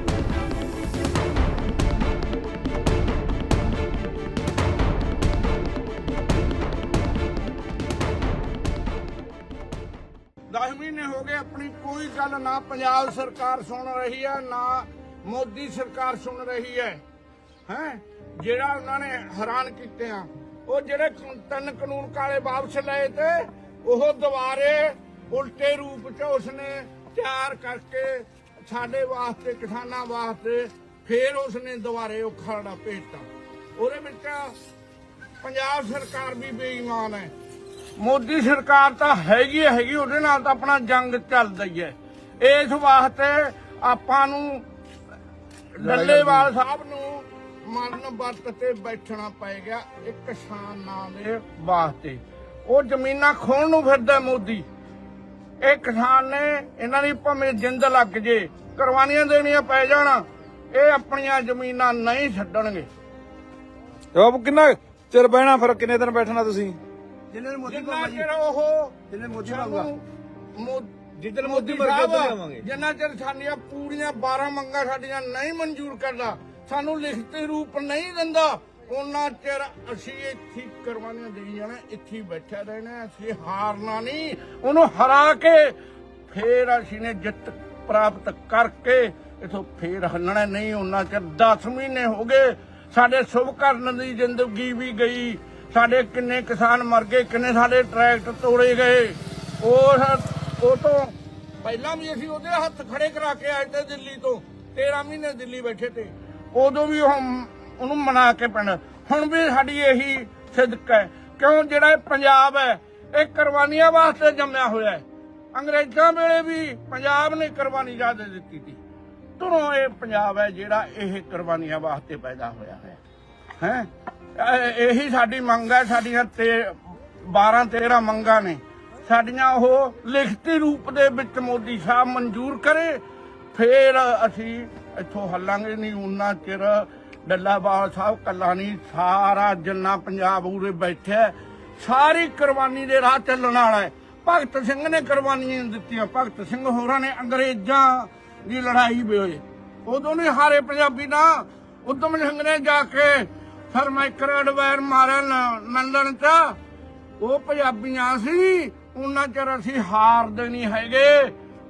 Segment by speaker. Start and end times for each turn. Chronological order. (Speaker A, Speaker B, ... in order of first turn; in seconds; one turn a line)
Speaker A: 10.5-17.0
Speaker A: 17.7-34.6
Speaker A: 35.4-37.3
Speaker A: 38.0-44.6
Speaker A: 45.7-54.6
Speaker B: 45.9-46.3
Speaker A: 55.6-62.9
Speaker C: 64.1-66.8
Speaker B: 67.3-68.2
Speaker A: 67.6-70.0
Speaker B: 69.1-69.9
Speaker A: 70.5-85.8
Speaker B: 71.4-72.6
Speaker A: 86.3-118.8
Speaker A: 119.4-123.0
Speaker A: 123.6-133.0
Speaker A: 133.5-156.6
Speaker A: 157.2-161.3